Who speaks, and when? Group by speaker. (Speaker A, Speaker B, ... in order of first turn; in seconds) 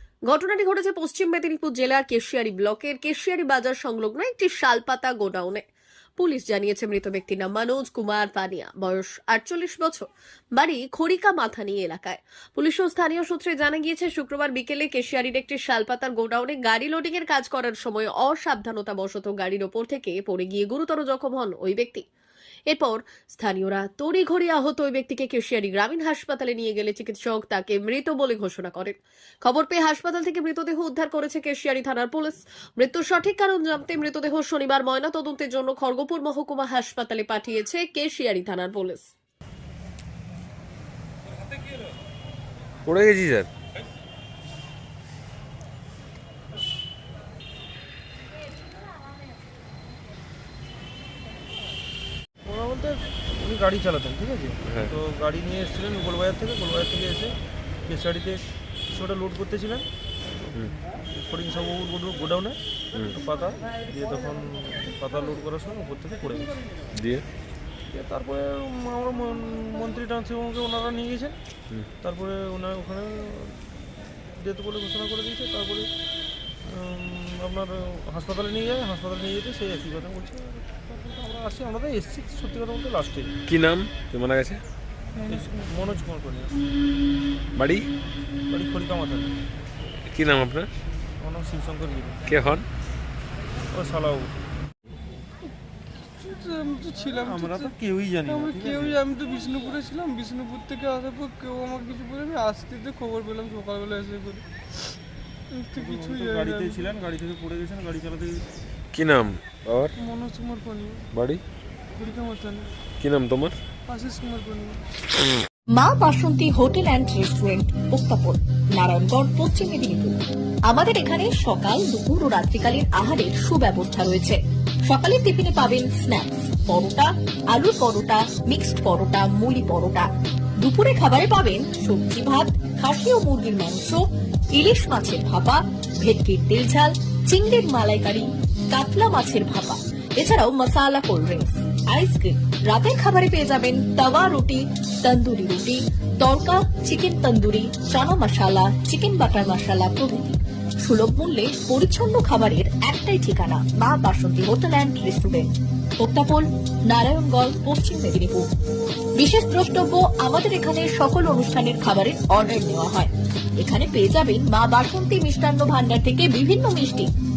Speaker A: 0.3-5.6, 6.2-22.1, 22.7-39.1
Speaker B: 42.8-43.5, 54.7-54.9, 67.0-67.2, 83.5-84.6, 87.6-87.9, 90.1-90.7, 92.3-92.7, 108.9-109.9, 111.1-111.4, 113.0-113.6
Speaker C: 52.5-57.3, 57.9-59.9, 61.1-62.6, 63.1-66.6, 67.9-71.4, 72.0-73.6, 74.3-75.9, 76.7-83.3, 85.2-86.6, 88.5-89.3, 91.2-92.2, 93.7-94.3, 97.2-99.0, 105.7-108.4
Speaker D: 85.2-85.5, 96.2-97.7, 98.2-104.4, 105.5-106.9, 110.0-111.0, 112.0-112.7, 113.9-114.8
Speaker E: 115.7-120.1, 120.7-130.1, 130.6-134.0, 134.5-158.5, 159.2-167.1